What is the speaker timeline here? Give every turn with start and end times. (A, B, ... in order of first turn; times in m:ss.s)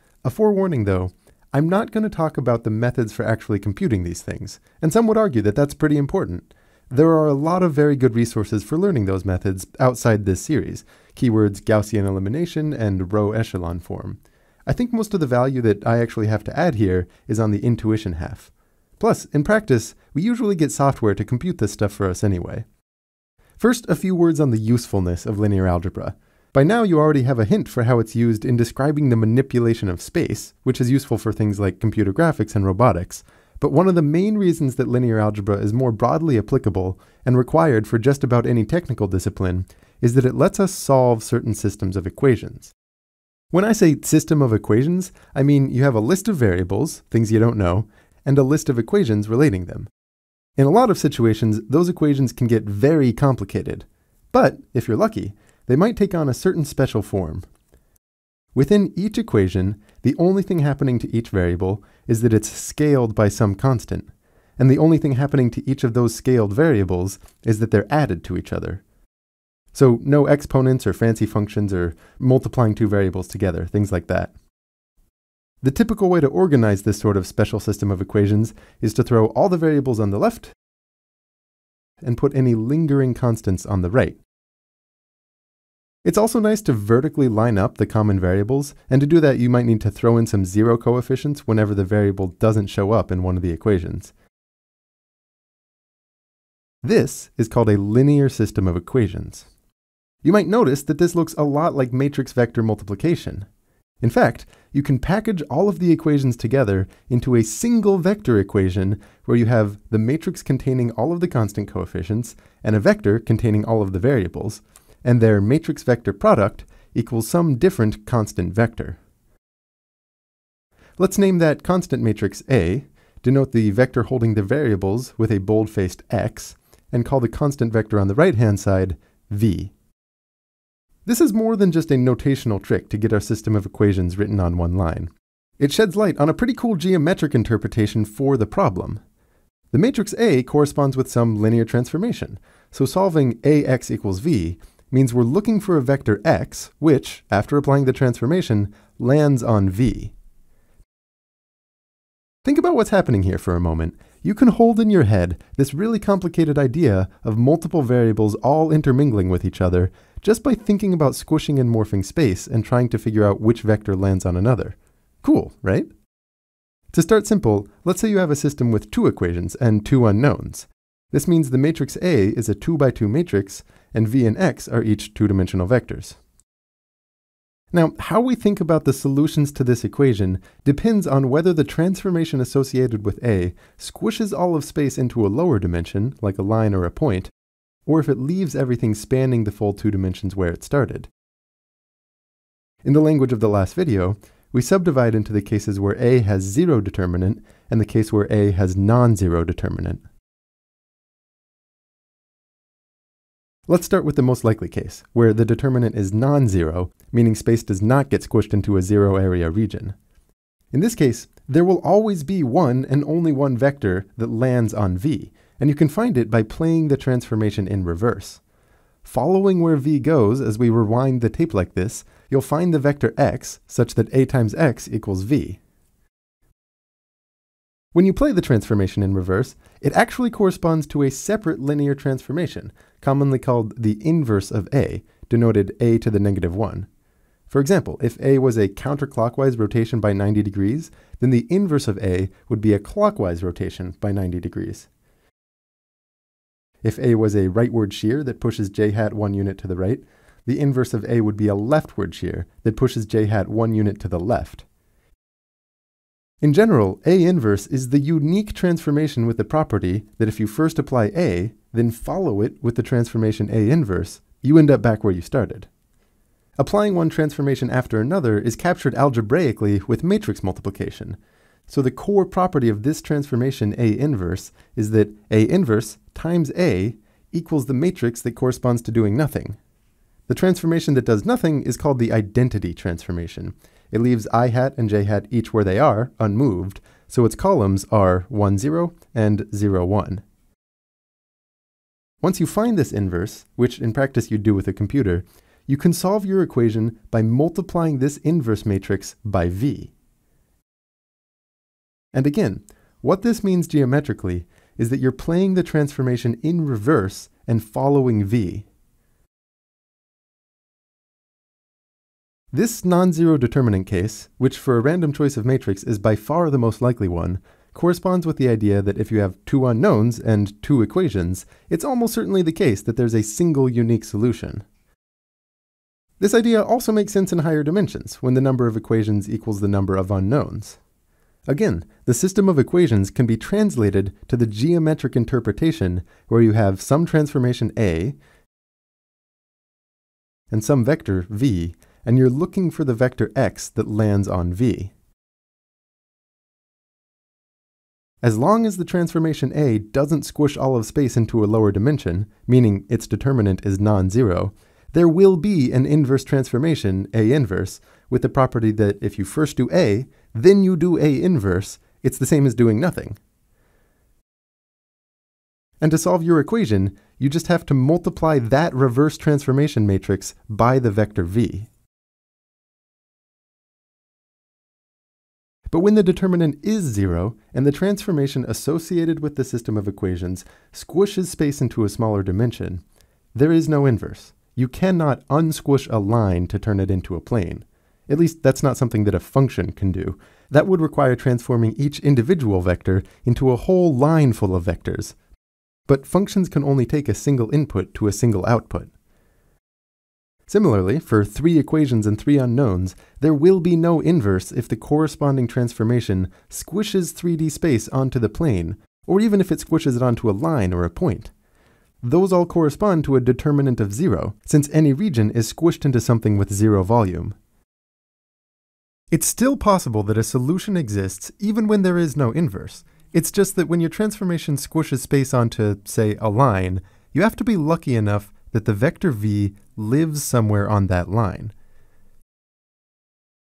0:00.2-0:22.7 A
0:23.6-0:42.8 A
0:43.5-0:49.9 A
0:50.6-0:57.5 A
0:58.6-1:08.8 A
1:09.7-1:14.3 A
1:15.6-1:20.5 A
1:22.0-1:24.2 A
1:26.0-1:34.1 A
1:36.8-1:39.5 A
1:40.2-1:43.5 A
1:44.0-1:59.0 A
2:01.0-2:09.7 A
2:11.0-2:19.0 A
2:19.7-2:30.1 A
2:32.4-2:45.9 A
2:46.9-2:56.2 A
2:57.7-3:07.3 A
3:07.9-3:11.1 A
3:12.8-3:20.0 A
3:23.7-3:30.0 A
3:30.7-3:38.4 A
3:39.0-3:45.6 A
3:47.9-3:56.9 A
3:57.5-4:04.9 A
4:06.8-4:14.7 A
4:16.4-4:25.7 A
4:26.6-4:31.2 A
4:31.7-4:39.6 A
4:40.3-4:50.2 A
4:52.2-4:59.9 A
5:02.1-5:08.7 A
5:12.5-5:24.6 A
5:26.2-5:30.8 A
5:31.5-5:38.2 A
5:40.5-5:44.9 A
5:48.2-6:03.2 A
6:05.8-6:11.7 A
6:15.7-6:22.8 A
6:23.3-6:35.2 A
6:35.9-6:38.9 A
6:40.5-6:51.3 A
6:52.0-6:57.4 A
6:59.1-7:11.5 A